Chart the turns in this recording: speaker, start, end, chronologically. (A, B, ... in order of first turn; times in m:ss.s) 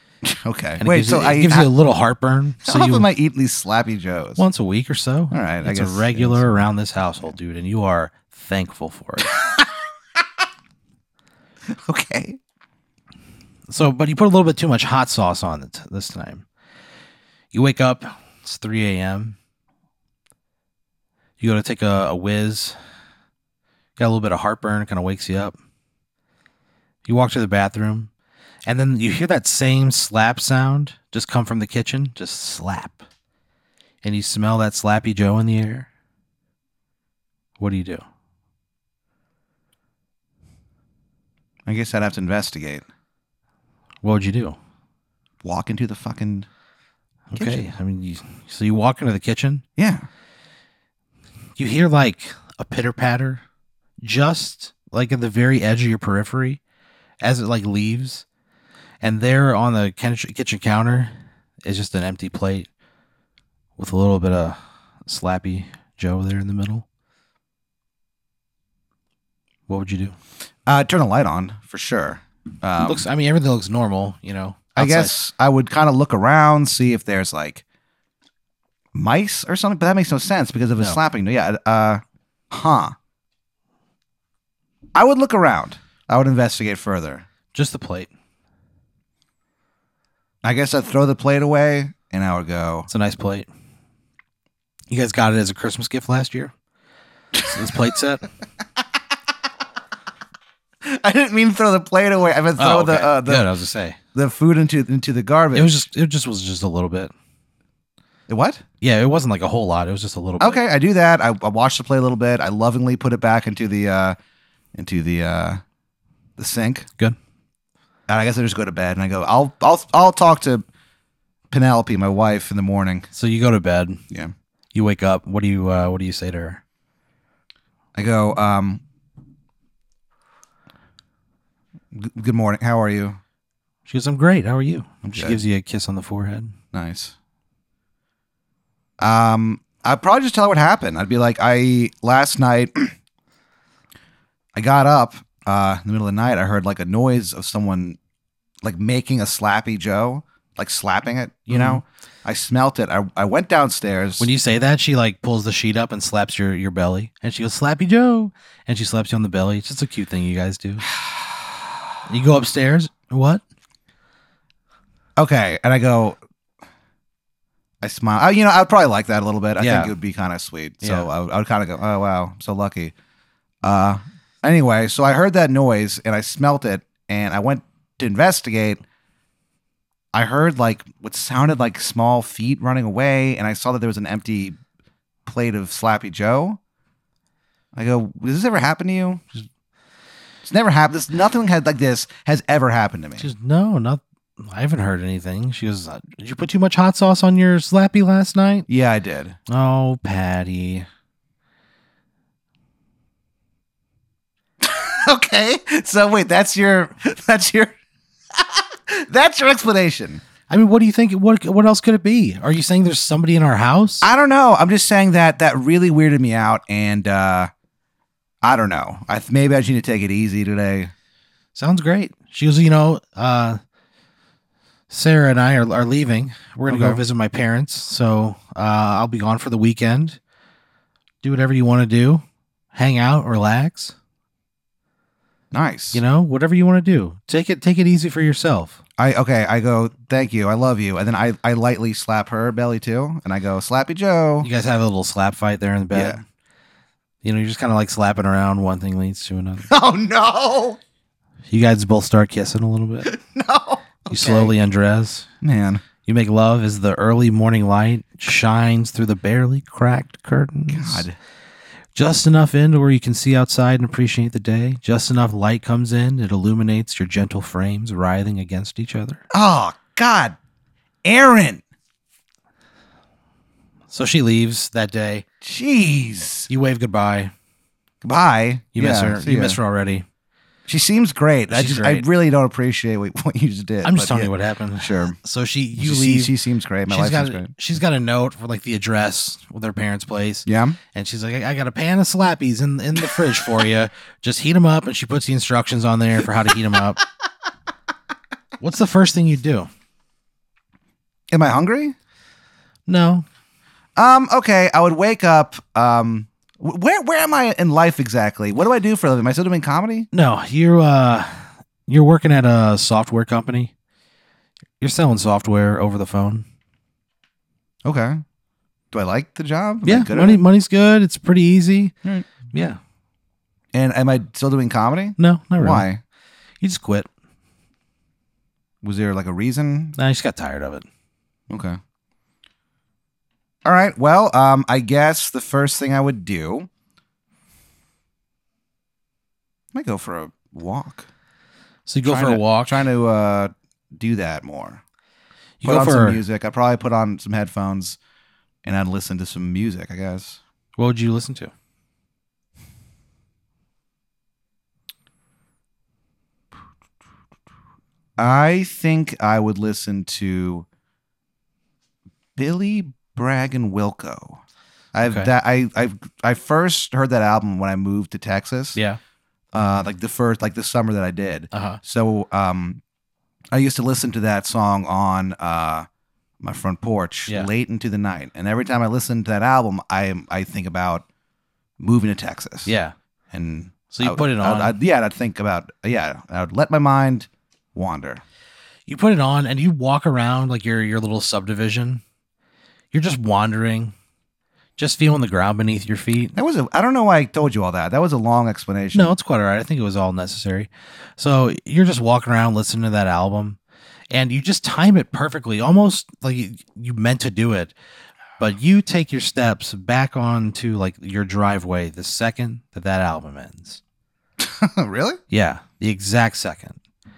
0:00.2-0:01.7 A
0:00.8-0:03.1 B
0:02.6-0:04.4 A
0:04.4-0:09.3 B
0:05.3-0:06.6 A
0:09.2-0:09.7 A
0:11.7-0:12.4 A
0:13.7-0:16.5 B
0:17.5-0:19.4 B
0:21.4-0:22.8 B
0:24.0-0:25.6 B
0:27.1-0:28.1 B
0:28.7-0:33.0 B
0:34.0-0:35.9 B
0:37.6-0:38.0 B
0:41.7-0:42.8 A
0:44.0-0:44.6 B
0:45.4-0:46.5 A
0:47.3-0:49.6 B
0:47.4-0:47.6 A
0:49.8-0:50.1 A
0:51.6-0:53.4 B
0:54.0-0:56.6 B
0:57.2-0:58.2 B
0:59.0-1:01.1 B
1:01.6-1:02.7 B
1:03.8-1:06.8 B
1:09.7-1:10.2 B
1:10.7-1:13.0 A
1:12.8-1:15.2 B
1:14.8-1:17.6 A
1:18.9-1:23.0 A
1:25.0-1:27.3 A
1:27.5-1:28.1 B
1:30.4-1:32.9 A
1:32.9-1:33.5 B
1:34.9-1:36.5 B
1:37.4-1:38.3 B
1:40.8-1:43.5 A
1:42.6-1:44.0 B
1:44.2-1:45.9 A
1:45.5-1:47.1 B
1:48.3-1:48.6 A
1:48.8-1:50.6 B
1:50.4-1:54.2 A
1:54.8-1:55.6 A
1:56.4-1:56.9 A
1:58.1-2:00.6 A
2:01.5-2:03.1 A
2:03.1-2:04.0 B
2:04.7-2:06.6 B
2:08.0-2:08.8 A
2:11.9-2:13.2 A
2:13.9-2:16.5 B
2:15.0-2:15.4 A
2:16.7-2:17.2 A
2:19.0-2:23.0 A
2:24.6-2:28.0 A
2:28.6-2:34.3 A
2:31.5-2:31.8 B
2:34.2-2:40.9 B
2:42.1-2:43.4 B
2:45.2-2:46.2 A
2:47.8-2:52.9 A
2:49.6-2:49.9 B
2:50.8-2:51.1 B
2:53.6-2:58.8 A
3:00.1-3:04.6 A
3:05.3-3:06.6 A
3:07.8-3:09.3 A
3:10.4-3:13.3 A
3:13.2-3:18.7 B
3:18.7-3:19.4 A
3:19.5-3:20.9 B
3:24.6-3:27.8 A
3:28.3-3:30.2 A
3:30.5-3:34.1 B
3:34.0-3:37.5 A
3:38.4-3:40.9 A
3:41.6-3:43.6 B
3:44.9-3:50.2 B
3:46.7-3:47.0 A
3:51.2-3:52.2 B
3:52.7-3:54.0 B
3:55.5-3:56.0 A
3:55.9-3:58.8 B
3:59.0-4:04.5 A
4:04.4-4:06.2 B
4:05.9-4:06.2 A
4:07.2-4:09.7 B
4:09.7-4:10.8 A
4:11.5-4:13.1 B
4:13.0-4:14.5 A
4:14.1-4:15.3 B
4:15.4-4:15.8 A
4:16.0-4:21.0 B
4:20.7-4:21.2 A
4:22.0-4:29.2 B
4:29.3-4:30.4 A
4:31.0-4:31.6 A
4:33.9-4:35.2 B
4:35.4-4:36.5 A
4:36.5-4:37.3 B
4:38.0-4:39.6 A
4:38.8-4:40.1 B
4:40.7-4:45.2 A
4:41.5-4:42.1 B
4:43.8-4:46.3 B
4:45.8-4:47.5 A
4:46.9-4:57.0 B
4:50.5-4:50.8 A
4:58.6-4:59.7 B
5:01.3-5:02.0 A
5:02.9-5:03.2 B
5:04.0-5:10.1 A
5:10.1-5:13.7 B
5:14.8-5:16.4 B
5:17.8-5:18.2 A
5:18.9-5:20.4 A
5:19.8-5:21.9 B
5:22.5-5:22.8 B
5:23.7-5:26.0 A
5:25.2-5:25.9 B
5:26.6-5:27.1 B
5:28.8-5:30.0 A
5:30.0-5:30.9 B
5:31.5-5:31.8 A
5:33.6-5:36.7 A
5:39.7-5:41.1 A
5:41.9-5:42.8 B
5:42.0-5:44.8 A
5:45.6-5:46.2 B
5:45.6-5:48.0 A
5:48.6-5:50.4 A
5:50.8-5:51.5 B
5:58.2-6:00.7 A
6:02.4-6:04.4 A
6:04.9-6:08.8 A
6:05.0-6:05.3 B
6:09.5-6:12.8 A
6:11.5-6:11.8 B
6:13.5-6:15.9 A
6:16.4-6:21.0 A
6:21.8-6:22.7 A
6:22.6-6:23.0 B
6:23.3-6:28.2 A
6:23.9-6:24.8 B
6:28.9-6:32.0 B
6:32.9-6:33.9 B
6:34.8-6:36.4 B
6:36.4-6:39.2 A
6:38.9-6:43.6 B
6:44.1-6:47.7 B
6:48.4-6:53.8 B
6:54.4-6:55.2 A
6:55.3-6:56.8 B